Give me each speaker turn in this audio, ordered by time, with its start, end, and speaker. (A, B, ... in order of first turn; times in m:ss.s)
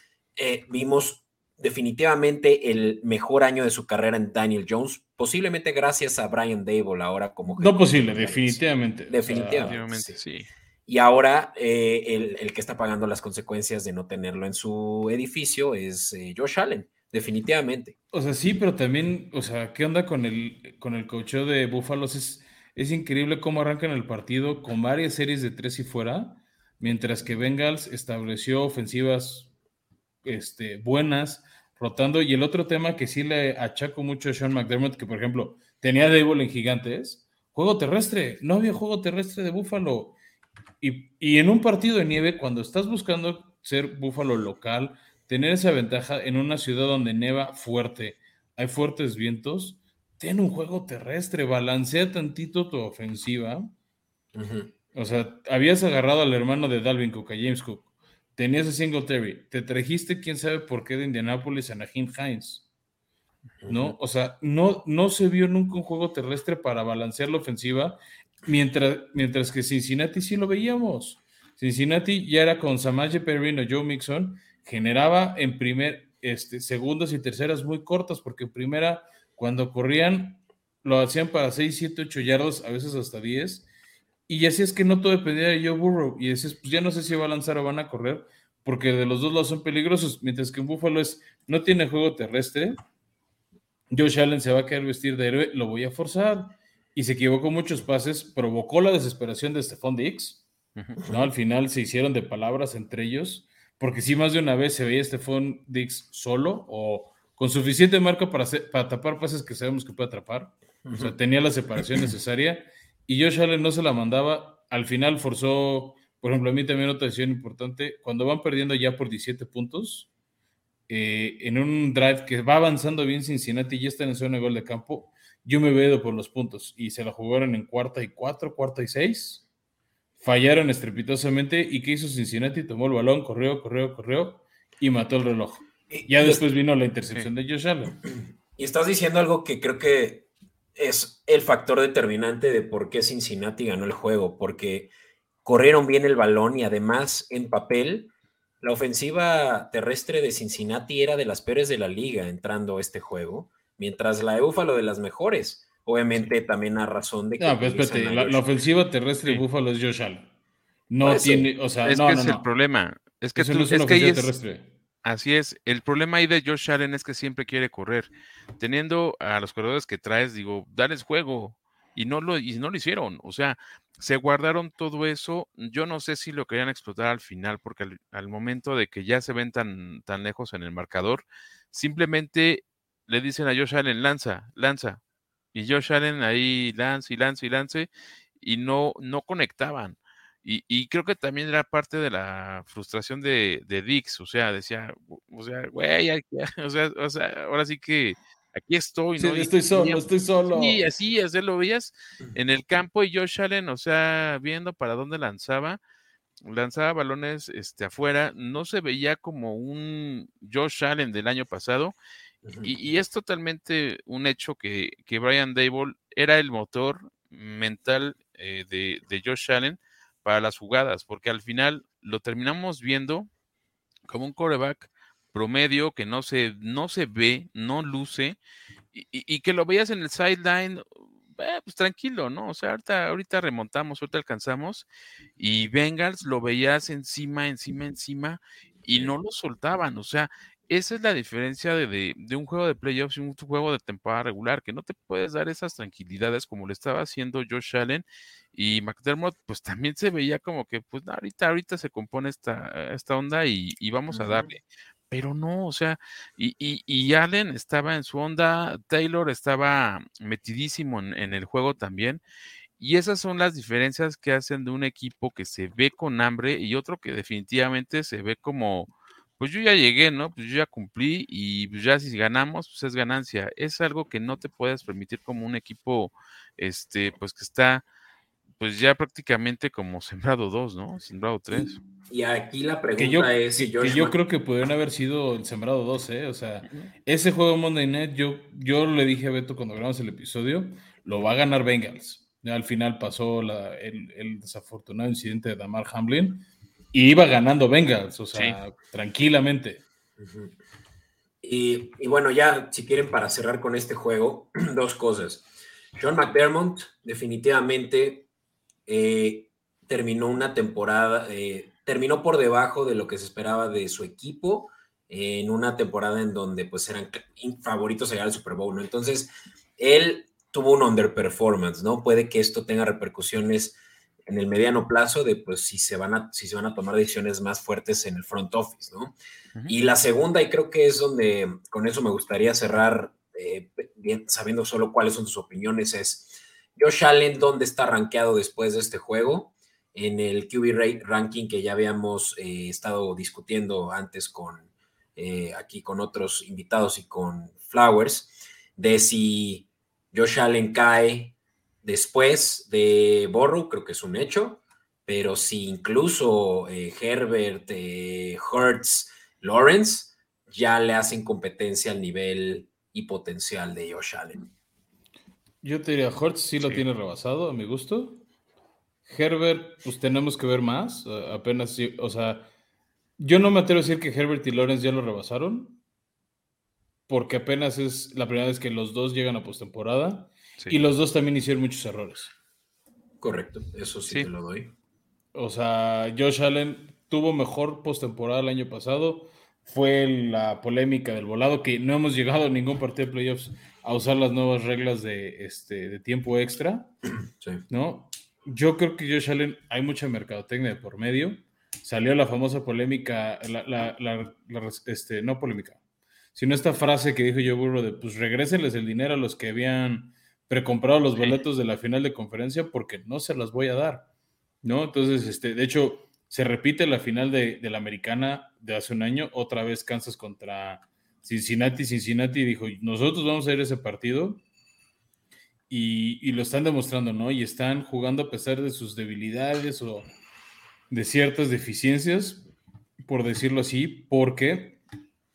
0:00.4-0:10.2 A
0:07.6-0:09.7 B
0:09.6-0:10.5 C
0:10.9-0:18.0 A
0:18.1-0:29.5 B
0:30.2-0:40.2 B
0:40.8-0:53.7 B
0:54.4-0:54.7 A
0:54.9-1:02.6 B
1:03.6-1:04.0 A
1:03.7-1:23.7 B
1:24.3-1:32.8 B
1:33.9-1:40.4 B
1:41.0-1:41.3 A
1:41.1-2:00.1 B
1:50.8-1:51.2 A
2:00.9-2:09.4 B
2:10.2-2:18.0 B
2:15.9-2:16.4 A
2:18.1-2:24.9 A
2:25.4-2:38.5 A
2:37.4-2:40.3 B
2:40.9-2:42.4 B
2:41.0-2:41.5 A
2:41.8-2:44.3 C
2:43.4-2:44.7 B
2:45.0-3:05.0 C
3:05.5-3:07.9 C
3:08.4-3:25.8 C
3:19.2-3:20.8 B
3:26.4-3:32.0 C
3:32.4-3:32.7 A
3:32.6-3:43.3 C
3:44.1-3:48.4 C
3:48.9-4:22.2 C
3:58.8-3:59.2 A
4:14.1-4:14.5 A
4:22.8-4:37.8 C
4:38.6-4:41.8 C
4:42.1-4:44.2 A
4:43.0-4:59.8 B
5:00.2-5:00.6 A
5:01.4-5:08.3 A
5:08.9-5:29.1 A
5:29.7-6:04.5 A
6:05.6-6:08.2 B
6:09.1-6:12.5 B
6:13.2-6:15.8 B
6:17.1-6:22.3 B
6:23.2-6:24.7 A
6:25.3-6:36.9 B
6:37.7-6:45.8 B
6:46.4-6:54.1 B
6:54.6-7:04.4 B
7:05.7-7:10.1 B
7:10.9-7:12.4 B
7:13.0-7:14.8 B